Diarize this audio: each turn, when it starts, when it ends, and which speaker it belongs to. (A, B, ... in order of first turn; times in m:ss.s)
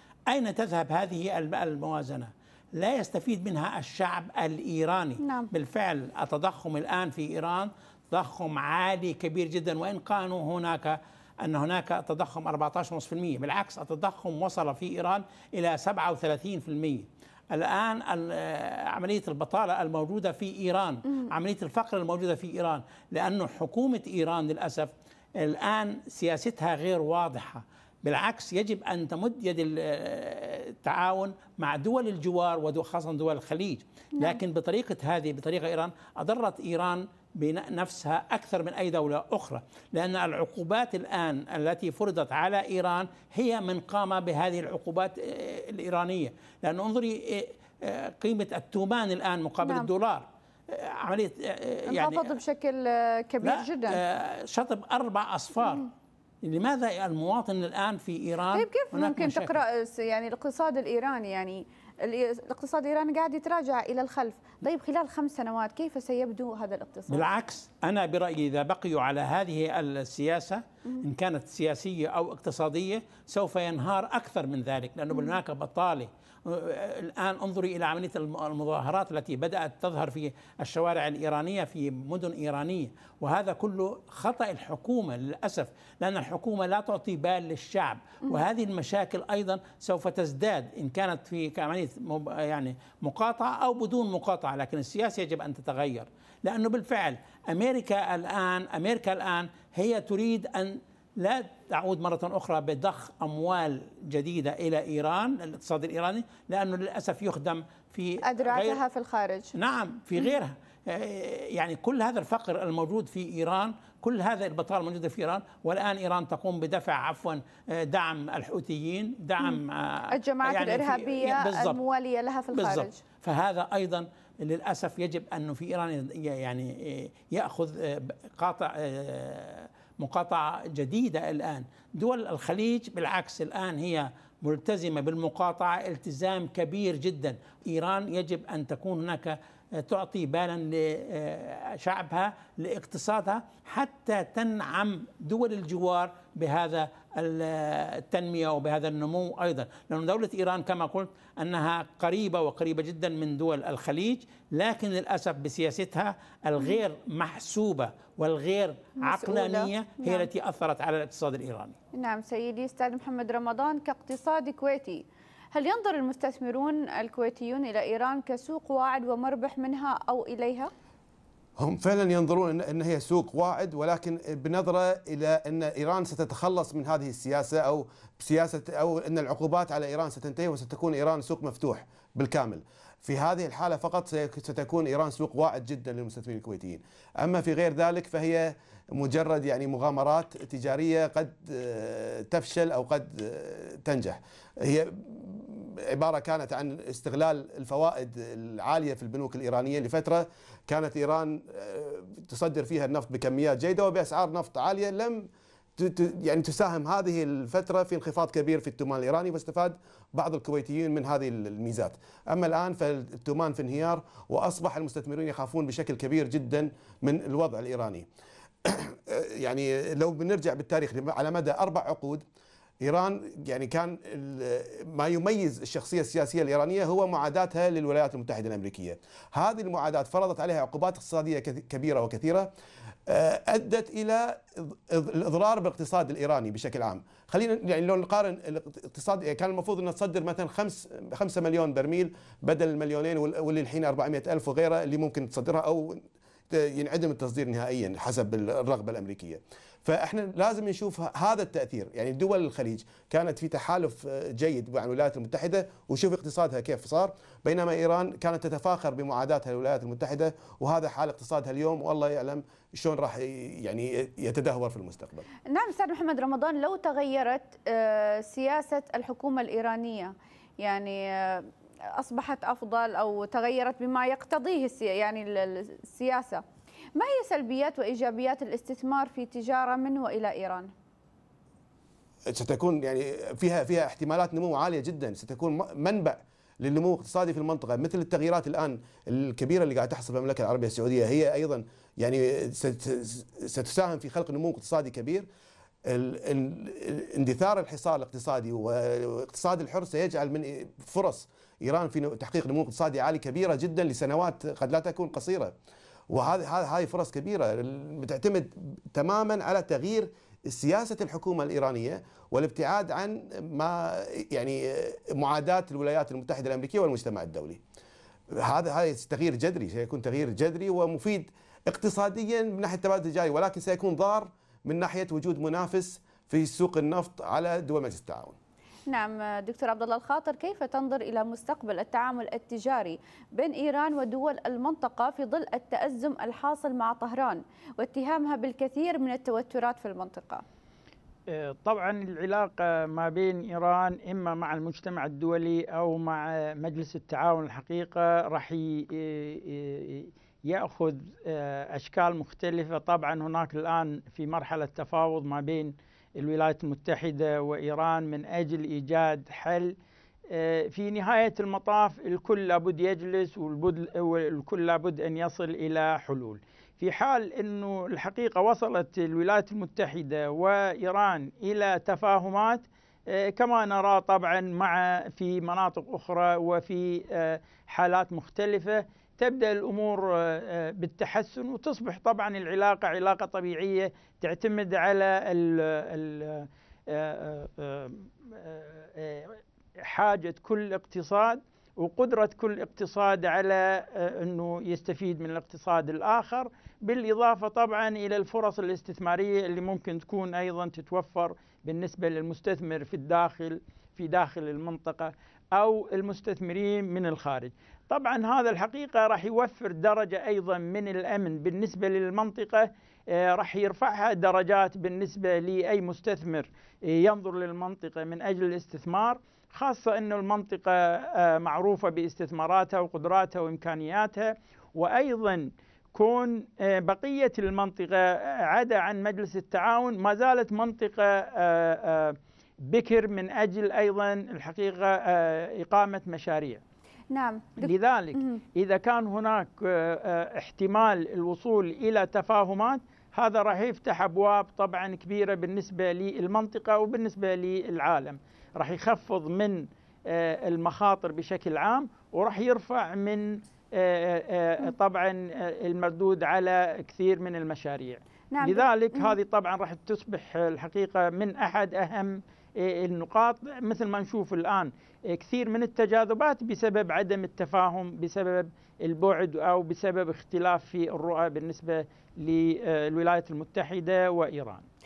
0:00.3-0:52.4 A
0:05.2-0:05.5 B
0:51.9-0:54.0 B
0:53.4-0:55.9 A
0:56.4-0:59.6 A
0:58.5-1:07.3 B
1:07.1-1:48.8 A
1:48.2-1:49.5 B
1:49.5-2:01.8 A
2:00.1-2:03.0 B
2:02.5-2:41.8 A
2:39.0-2:40.3 B
2:41.9-2:50.7 B
2:51.6-3:38.1 C
3:38.6-3:42.2 C
3:42.8-3:52.5 C
3:53.1-4:25.2 C
4:25.5-4:36.4 B
4:37.0-4:40.7 B
4:42.3-4:55.2 C
4:55.8-5:05.5 C
5:06.1-5:17.6 C
5:18.3-5:28.4 C
5:28.9-5:40.4 B
5:41.3-5:59.8 D
6:00.3-7:16.6 D
7:17.1-7:18.4 B
7:17.6-7:54.6 D
7:38.3-7:39.1 B